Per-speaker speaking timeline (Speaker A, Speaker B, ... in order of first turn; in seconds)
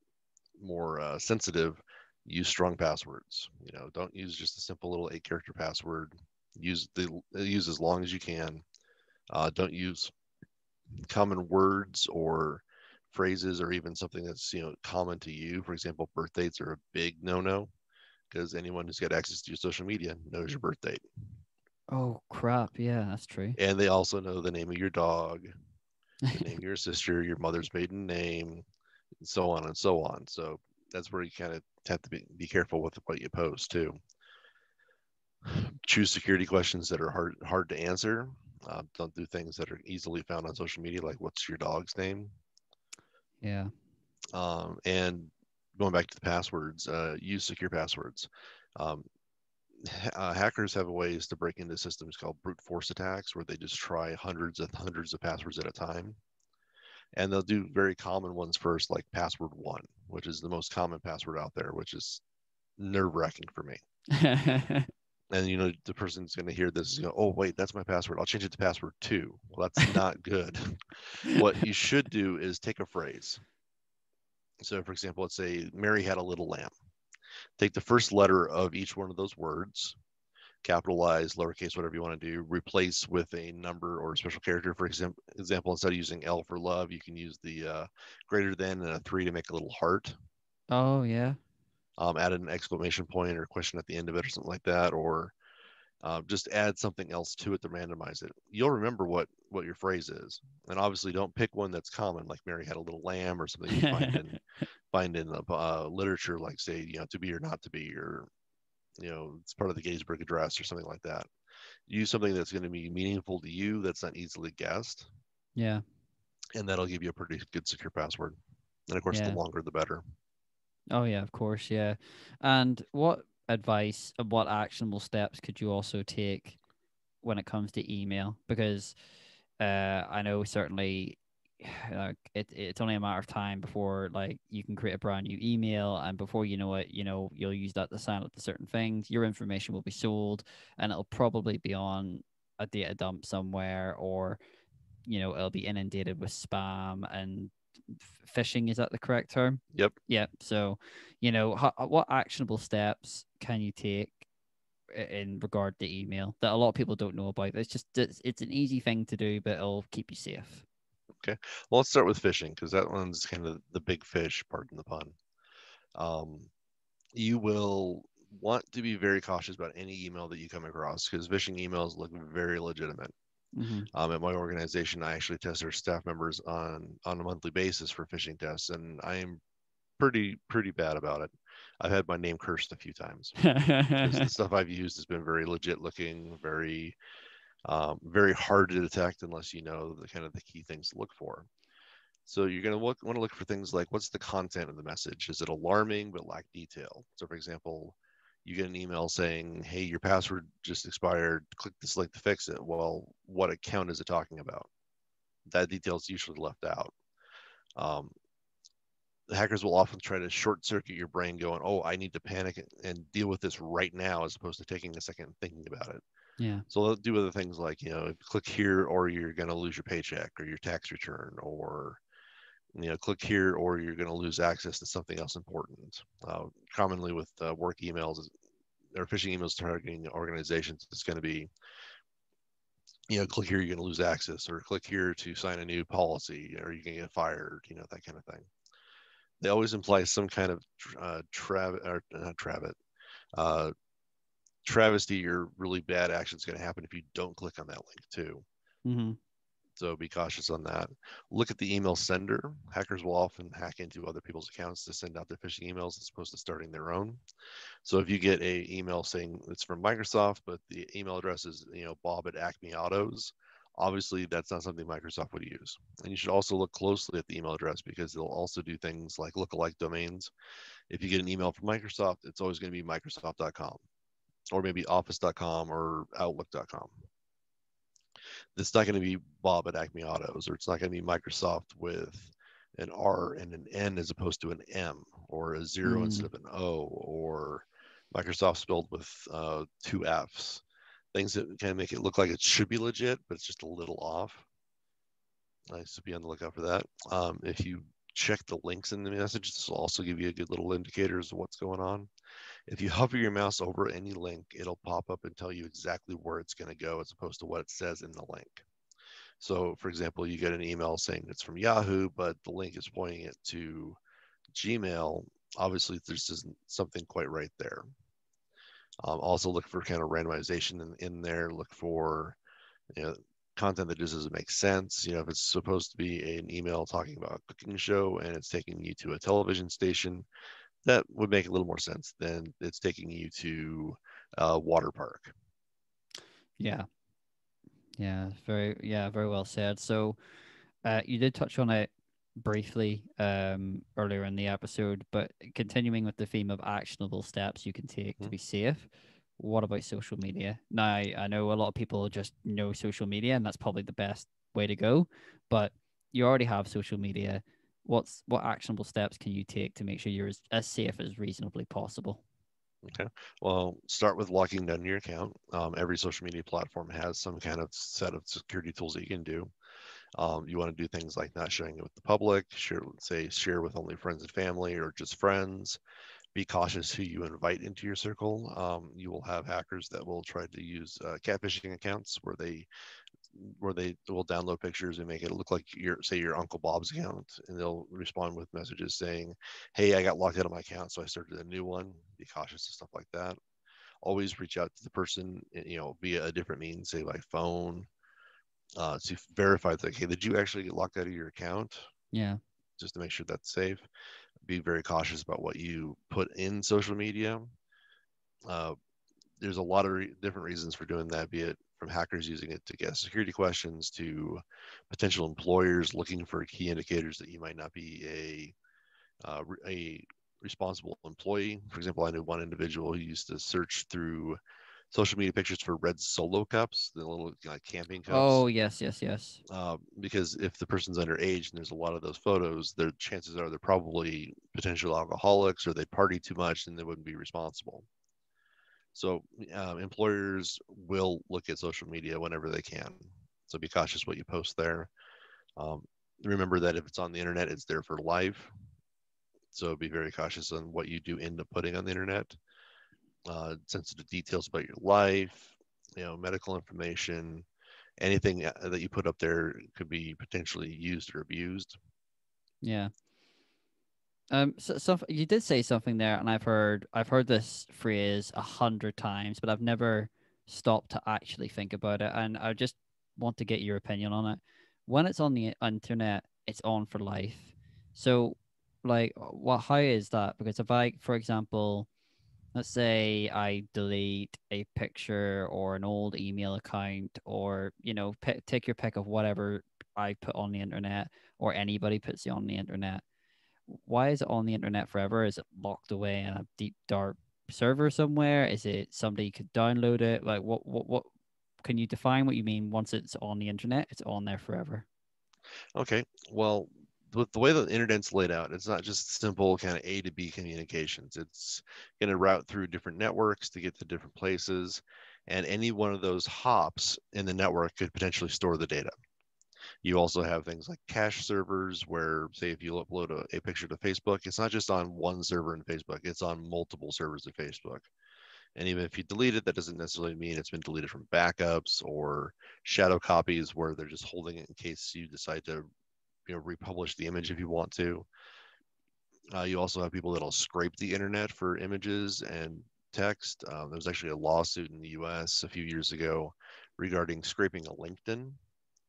Speaker A: 0.6-8.6, 9.3-10.1, 11.1-17.7, 18.3-21.1, 23.6-25.5, 26.3-28.6, 29.2-34.0, 35.5-42.3, 44.3-49.1, 49.8-56.2, 57.1-62.2, 62.8-63.8, 65.3-73.4, 74.6-76.7, 77.6-80.0, 80.6-90.1, 92.0-95.3, 96.0-104.4, 104.9-108.3, 109.0-111.3, 111.9-115.1, 116.5-118.4, 118.9-120.0, 161.2-165.2, 165.9-166.5, 167.1-173.1, 173.9-179.4, 180.0-183.3, 184.0-187.0, 187.6-191.5, 192.2-204.7, 205.5-206.9, 207.8-208.1, 209.3-216.0, 216.7-222.0, 222.7-228.3, 228.9-231.5, 233.1-238.5, 239.4-242.8, 243.3-243.7, 244.6-248.4, 249.8-257.2, 257.8-270.3, 270.9-273.8, 274.5-277.0, 278.6-294.4, 295.7-302.1, 302.7-308.7, 309.4-314.0, 314.5-317.8, 319.0-322.4, 322.9-330.2, 330.9-335.3, 362.8-369.5, 370.1-375.8, 376.3-382.7, 383.3-393.4, 394.0-397.9, 398.8-401.9, 402.8-403.9, 404.4-407.5, 408.5-408.8, 409.4-418.5, 419.2-424.4, 424.9-428.4, 429.5-437.9, 438.9-444.9, 445.6-448.5, 449.5-452.4, 453.3-457.5, 458.0-461.8, 505.8-518.9, 519.8-527.9, 528.6-535.6, 536.3-538.1, 539.3-548.4
Speaker B: 21.9-23.6, 43.4-43.7, 64.1-64.9, 90.7-91.4, 103.7-104.4, 115.6-115.8, 119.1-119.4, 120.9-126.6, 127.2-129.0, 129.6-144.4, 145.1-154.3, 154.9-160.6, 173.6-173.9, 183.4-184.3, 216.4-216.6, 248.8-249.2, 285.8-286.3, 336.6-336.9, 338.0-340.2, 340.8-362.2, 402.1-402.4, 428.1-429.4, 462.6-462.9, 464.3-481.9, 482.6-493.0, 493.7-501.1, 501.6-504.9